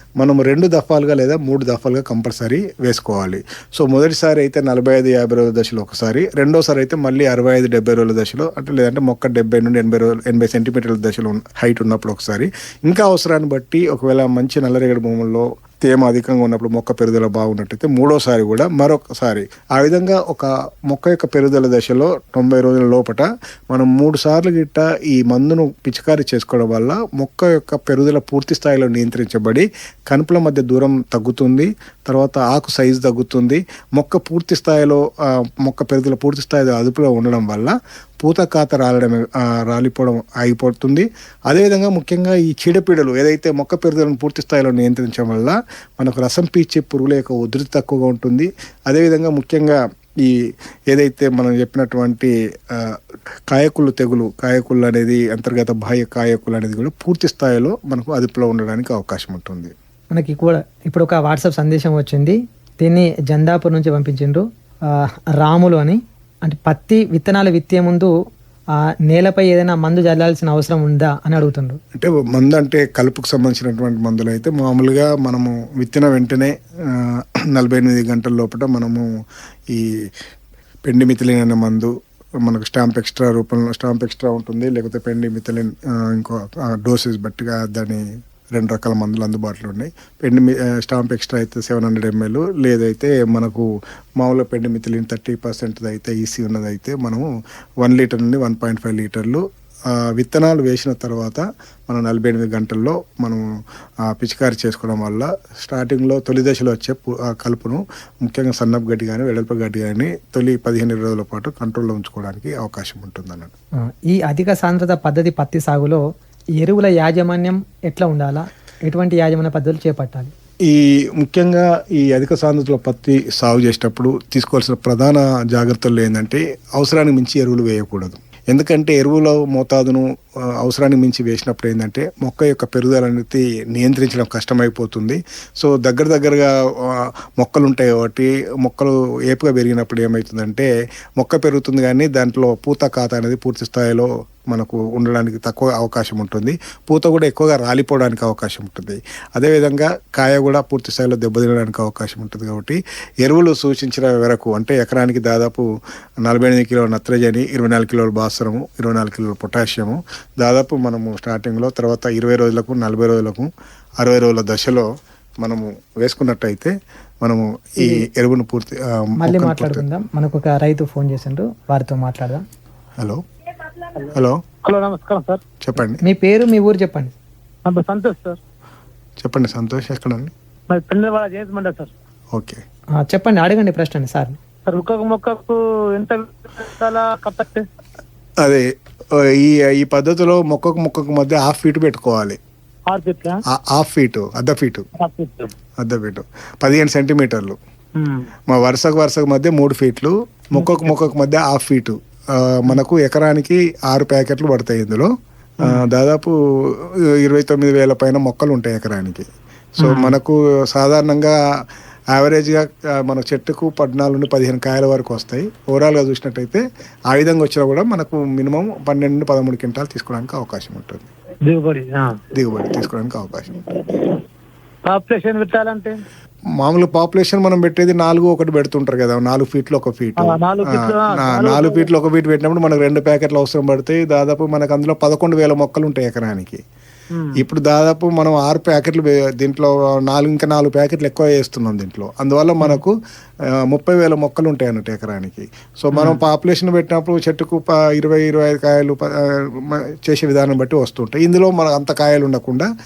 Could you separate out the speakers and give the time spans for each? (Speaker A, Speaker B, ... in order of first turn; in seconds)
Speaker A: 0.2-50.4, 50.9-53.0, 53.5-59.7, 71.9-79.1, 79.7-80.1, 80.8-81.9, 82.4-93.7, 94.2-97.2, 97.8-103.4, 104.0-113.5, 120.6-130.1, 130.6-155.7, 156.2-163.5, 164.0-164.9, 165.4-169.8, 174.1-174.4, 175.6-176.0, 179.2-180.3, 182.3-182.6, 188.4-192.4, 193.5-194.9, 195.8-197.6, 198.5-209.3, 209.8-211.3, 212.1-221.1, 222.3-223.7, 226.6-236.6, 237.3-243.0, 243.5-252.7
Speaker B: 60.1-68.1, 69.1-71.8, 113.8-116.0, 116.6-120.3, 169.2-172.4, 176.0-177.1, 183.0-184.4
Speaker C: 174.6-175.4, 177.6-178.4, 180.7-181.9, 184.7-187.7, 192.9-193.4, 195.0-195.5, 197.9-198.3, 200.6-200.8, 209.8-210.1, 221.5-222.2, 224.8-226.0, 230.2-231.8, 237.1-237.4, 245.9-246.2